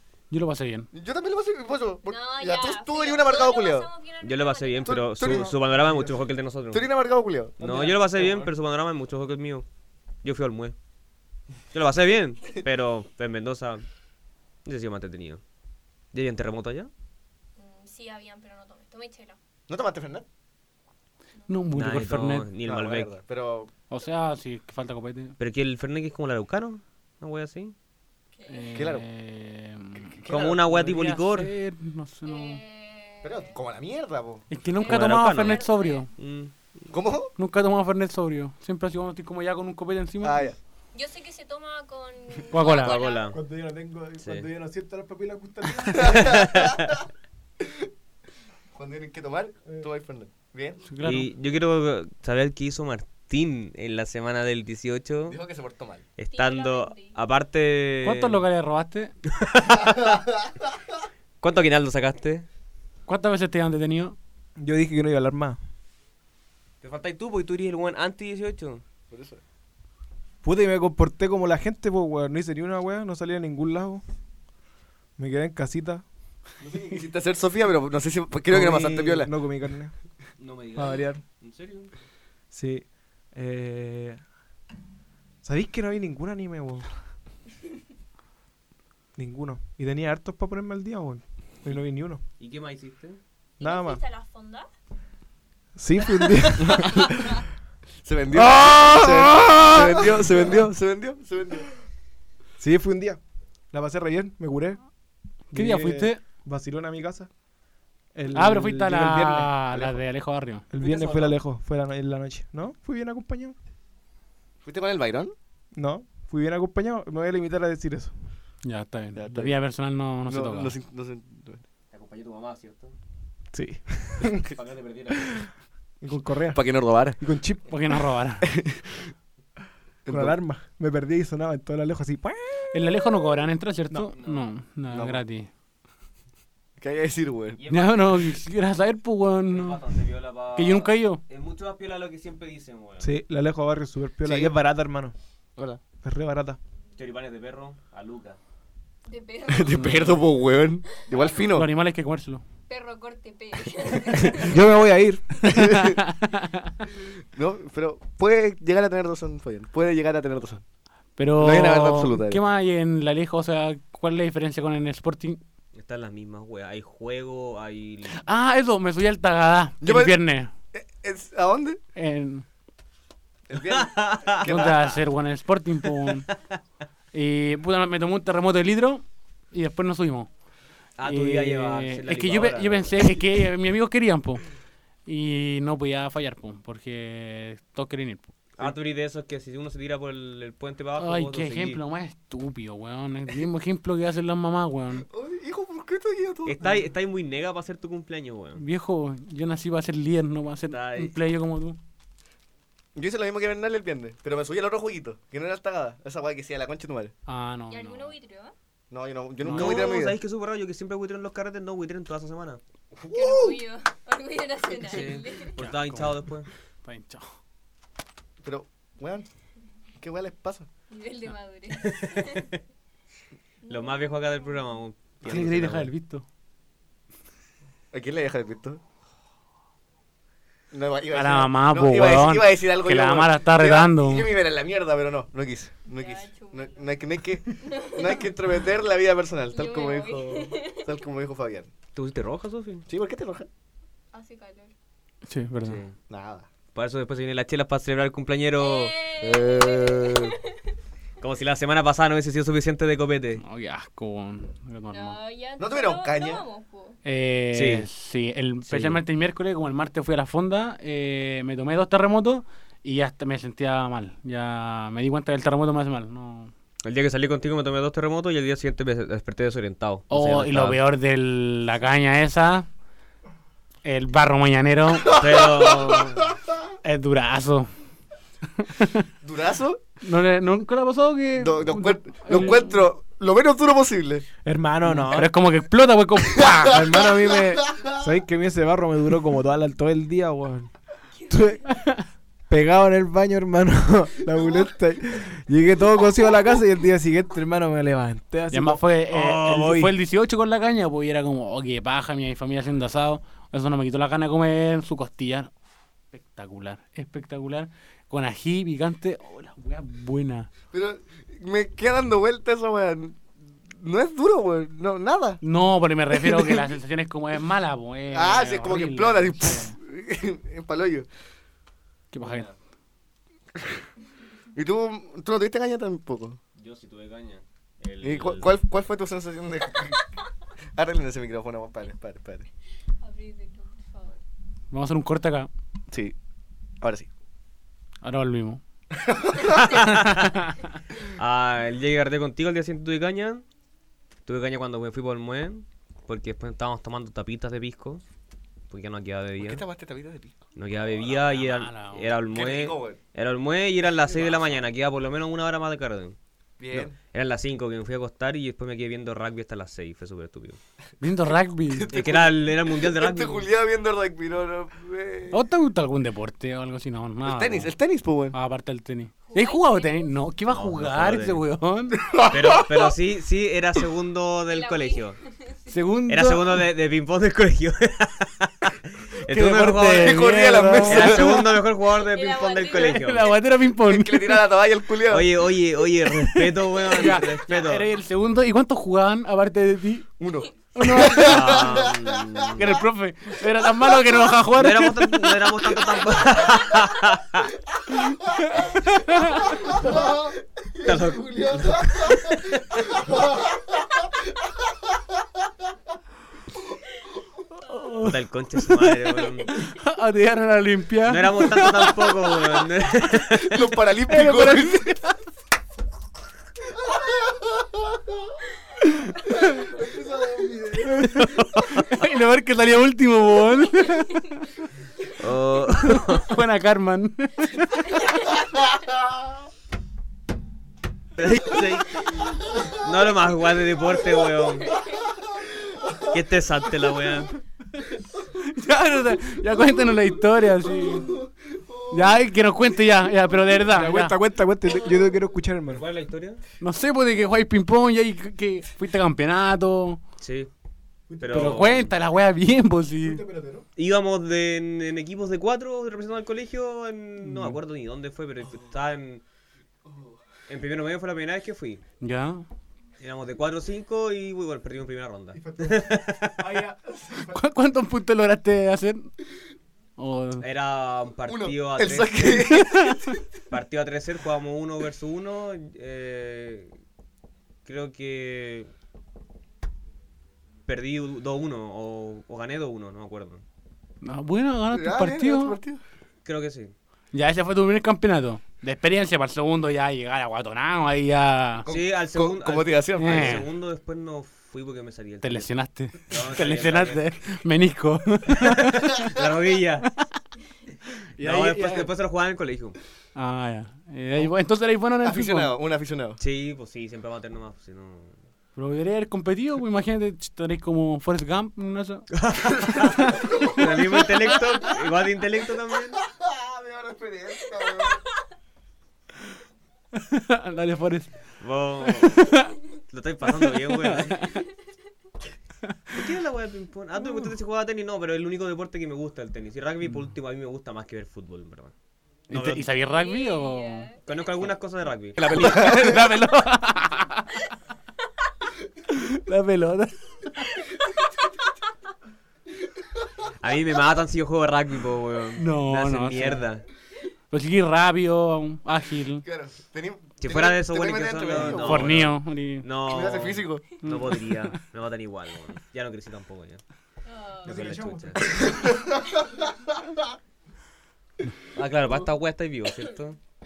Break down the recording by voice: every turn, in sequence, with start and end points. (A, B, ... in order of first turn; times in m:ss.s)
0:00.3-0:00.9 A
0:00.9-0:03.9 B
0:02.0-0:05.4 C
0:04.2-0:06.9 D
0:04.8-0:06.2 B
0:06.7-0:08.5 B
0:07.6-0:09.6 D
0:10.2-0:10.8 D
0:11.7-0:13.8 D
0:14.6-0:15.4 D
0:16.1-0:16.9 D
0:17.6-0:19.4 C
0:19.7-0:20.3 B
0:21.4-0:21.6 C
0:21.5-0:22.5 A
0:21.7-0:23.1 D
0:22.6-0:23.7 B
0:23.9-0:25.4 A
0:25.4-0:27.8 D
0:28.3-0:28.9 C
0:28.5-0:32.6 A
0:28.8-0:29.0 B
0:30.0-0:30.6 B
0:30.3-0:31.5 D
0:32.2-0:33.6 C
0:33.2-0:34.4 B
0:34.5-0:36.1 A
0:34.8-0:36.1 C
0:34.8-0:35.6 D
0:36.2-0:36.6 D
0:36.9-0:37.3 B
0:37.4-0:40.4 A
0:40.2-0:40.6 B
0:40.9-0:43.4 C
0:42.5-0:43.0 A
0:42.8-0:43.4 D
0:43.3-0:46.4 E
0:44.2-0:44.5 D
0:45.9-0:47.0 B
0:46.2-0:46.8 D
0:48.8-0:50.8 B
0:50.9-0:51.3 A
0:51.0-0:55.4 D
0:55.3-0:56.0 B
0:56.2-0:58.4 D
0:56.3-0:57.2 C
0:58.0-0:59.1 A
0:59.3-1:00.2 D
1:01.4-1:02.5 D
1:03.1-1:04.2 A
1:04.6-1:05.6 E
1:06.8-1:08.8 D
1:09.1-1:09.4 B
1:10.4-1:14.0 E
1:15.2-1:16.0 E
1:16.6-1:19.3 B
1:18.5-1:19.9 E
1:20.4-1:21.9 D
1:20.8-1:21.2 E
1:22.5-1:24.2 E
1:25.4-1:26.9 E
1:29.2-1:32.2 E
1:32.4-1:33.2 D
1:33.6-1:34.7 C
1:33.6-1:34.0 E
1:35.8-1:37.2 E
1:36.6-1:37.1 B
1:38.0-1:41.7 B
1:38.3-1:40.7 E
1:42.6-1:43.2 E
1:43.7-1:44.8 E
1:45.5-1:46.2 A
1:45.5-1:47.3 E
1:48.1-1:49.6 E
1:48.3-1:50.6 A
1:50.7-1:53.6 E
1:50.8-1:51.4 D
1:54.6-1:55.4 B
1:55.7-1:58.1 E
1:58.6-2:00.7 A
1:59.2-1:59.6 B
2:00.3-2:01.6 B
2:01.9-2:03.0 D
2:03.5-2:04.5 E
2:04.3-2:05.4 D
2:06.0-2:06.7 E
2:06.5-2:07.2 B
2:07.2-2:07.7 E
2:07.7-2:08.5 A
2:08.4-2:09.0 B
2:10.1-2:10.4 B
2:10.1-2:13.1 E
2:12.7-2:15.5 A
2:14.1-2:14.4 D
2:14.9-2:15.2 B
2:16.8-2:17.6 B
2:17.6-2:18.3 D
2:17.7-2:19.8 A
2:19.5-2:23.1 D
2:20.6-2:21.2 A
2:23.0-2:25.2 E
2:24.2-2:24.5 B
2:26.0-2:26.6 E
2:27.0-2:28.4 D
2:29.1-2:30.2 C
2:29.5-2:31.7 B
2:29.7-2:30.2 A
2:30.9-2:31.5 C
2:31.5-2:32.4 A
2:32.7-2:34.6 C
2:34.3-2:35.5 E
2:35.5-2:36.0 B
2:35.6-2:36.7 A
2:37.3-2:40.6 B
2:41.2-2:45.4 A
2:41.4-2:42.4 B
2:45.8-2:48.2 D
2:48.1-2:50.5 A
2:49.8-2:50.2 B
2:50.7-2:51.8 B
2:52.0-2:52.5 A
2:53.5-2:55.0 B
2:53.7-2:54.8 D
2:54.4-2:56.3 A
2:57.1-3:00.3 A
3:01.0-3:02.9 D
3:01.0-3:04.4 A
3:05.1-3:08.3 A
3:08.6-3:11.8 D
3:11.0-3:15.1 A
3:15.1-3:16.7 B
3:16.4-3:18.6 D
3:18.6-3:21.8 A
3:20.7-3:21.1 D
3:23.0-3:27.1 B
3:27.3-3:28.2 A
3:27.7-3:28.5 C
3:28.9-3:30.2 B
3:29.4-3:29.8 A
3:29.4-3:32.6 D
3:33.0-3:33.6 B
3:33.1-3:35.6 C
3:34.8-3:36.5 D
3:35.6-3:36.3 A
3:36.8-3:37.3 A
3:38.4-3:39.3 B
3:40.0-3:40.7 B
3:40.9-3:42.5 C
3:41.8-3:42.5 D
3:43.6-3:44.6 C
3:43.7-3:45.9 D
3:45.2-3:46.2 A
3:47.9-3:48.8 B
3:50.7-4:01.7 B
3:51.1-3:54.3 A
3:56.0-3:56.9 C
3:57.6-3:58.2 C
3:59.5-4:00.9 C
4:02.0-4:02.8 D
4:02.9-4:03.5 B
4:04.1-4:04.7 C
4:05.3-4:05.8 A
4:05.6-4:06.0 D
4:06.1-4:06.5 B
4:06.8-4:09.0 D
4:08.6-4:10.4 C
4:09.2-4:10.3 B
4:11.2-4:13.4 D
4:13.4-4:15.2 A
4:14.9-4:17.0 C
4:15.6-4:16.5 B
4:17.0-4:26.5 A
4:17.5-4:17.9 D
4:18.7-4:19.0 D
4:26.8-4:30.8 D
4:30.1-4:32.7 A
4:33.8-4:35.1 A
4:35.0-4:36.2 B
4:35.2-4:36.3 D
4:36.8-4:37.7 A
4:38.6-4:39.1 A
4:39.2-4:39.8 B
4:40.0-4:42.8 A
4:41.4-4:44.3 B
4:44.4-4:45.4 E
4:44.8-4:46.8 A
4:46.4-4:47.9 B
4:46.7-4:50.7 E
4:51.2-4:51.6 C
4:51.3-4:51.6 E
4:52.5-4:58.8 E
4:58.5-5:05.5 A
4:59.1-4:59.9 D
5:06.1-5:10.5 A
5:10.7-5:15.4 B
5:15.4-5:19.8 A
5:16.1-5:16.7 B
5:18.1-5:21.1 B
5:22.1-5:22.5 A
5:22.2-5:22.6 D
5:24.6-5:26.4 B
5:26.6-5:28.5 D
5:28.0-5:30.0 B
5:30.8-5:32.5 B
5:33.0-5:34.2 C
5:34.7-5:35.5 A
5:36.8-5:37.1 B
5:38.0-5:38.6 A
5:39.0-5:39.7 B
5:39.6-5:40.3 D
5:39.8-5:40.6 A
5:41.2-5:43.4 D
5:44.3-5:48.0 D
5:48.7-5:49.6 D
5:49.4-5:50.4 B
5:50.6-5:56.2 D
5:51.1-5:52.2 A
5:52.3-5:53.0 B
5:54.0-5:54.6 B
5:56.6-5:57.0 B
5:56.8-6:00.6 D
6:01.0-6:01.9 A
6:01.7-6:05.4 B
6:01.9-6:03.5 D
6:05.3-6:07.7 A
6:07.2-6:08.4 B
6:08.3-6:12.0 A
6:09.3-6:10.2 C
6:10.5-6:11.4 D
6:12.0-6:12.9 B
6:12.3-6:15.2 D
6:14.5-6:15.8 C
6:15.7-6:16.6 A
6:16.1-6:20.2 D
6:19.3-6:21.5 A
6:20.0-6:21.5 B
6:20.8-6:23.3 D
6:22.0-6:23.4 C
6:22.8-6:24.5 A
6:23.8-6:25.4 B
6:25.1-6:27.9 D
6:26.2-6:30.1 A
6:30.2-6:32.6 B
6:30.8-6:31.7 A
6:31.2-6:32.6 D
6:32.6-6:35.5 A
6:34.6-6:37.5 D
6:38.8-6:39.5 A
6:39.5-6:42.4 B
6:40.8-6:42.6 D
6:47.7-6:52.4 A
6:48.0-6:49.6 D
6:51.1-6:53.8 D
6:53.4-6:55.0 B
6:54.1-6:55.2 A
6:56.9-6:57.7 B
6:59.7-7:01.0 B
7:00.4-7:00.8 E
7:01.0-7:04.4 A
7:01.4-7:01.9 D
7:05.2-7:06.3 D
7:06.0-7:08.0 A
7:11.2-7:12.0 D
7:12.8-7:14.8 D
7:16.1-7:17.4 D
7:18.4-7:21.1 A
7:20.7-7:22.2 B
7:21.9-7:24.2 A
7:23.7-7:25.9 E
7:25.7-7:26.4 D
7:26.6-7:30.0 A
7:30.2-7:30.5 D
7:31.1-7:31.7 E
7:31.2-7:31.9 D
7:31.3-7:33.2 A
7:33.0-7:33.7 E
7:33.8-7:39.2 D
7:37.2-7:37.6 A
7:39.9-7:40.2 B
7:40.5-7:41.8 D
7:42.0-7:42.4 A
7:43.0-7:46.6 D
7:45.3-7:47.4 E
7:47.3-7:49.1 A
7:50.0-7:50.4 A
7:50.4-7:52.3 D
7:51.3-7:53.2 B
7:52.5-7:53.1 A
7:53.5-7:56.7 D
7:57.7-7:58.7 D
8:00.7-8:03.4 D
8:04.0-8:05.6 A
8:04.7-8:05.8 B
8:06.2-8:06.7 D
8:07.1-8:11.7 A
8:11.6-8:13.4 B
8:11.7-8:15.5 D
8:13.0-8:13.5 A
8:15.2-8:18.9 A
8:16.1-8:17.0 D
8:18.4-8:19.9 D
8:21.2-8:22.8 D
8:21.6-8:21.9 B
8:23.2-8:25.5 A
8:25.0-8:26.2 B
8:26.2-8:28.2 D
8:28.6-8:32.1 A
8:32.2-8:36.0 D
8:33.2-8:33.5 B
8:36.1-8:38.0 B
8:40.0-8:41.1 A
8:41.4-8:42.3 D
8:41.8-8:42.6 A
8:42.9-8:44.3 D
8:43.3-8:44.4 A
8:45.9-8:51.7 D
8:52.3-8:53.9 A
8:52.3-8:52.7 D
8:52.9-8:54.0 C
8:54.1-8:55.8 D
8:55.2-8:56.1 B
8:55.3-8:57.4 A
8:58.9-9:00.0 A
9:03.4-9:06.6 D
9:05.4-9:06.5 A
9:07.3-9:09.2 A
9:09.2-9:12.1 B
9:10.2-9:16.6 D
9:11.5-9:12.7 A
9:12.8-9:13.7 B
9:13.8-9:14.6 A
9:17.1-9:17.6 C
9:17.4-9:18.3 E
9:17.4-9:18.2 D
9:18.2-9:19.5 B
9:21.6-9:23.2 D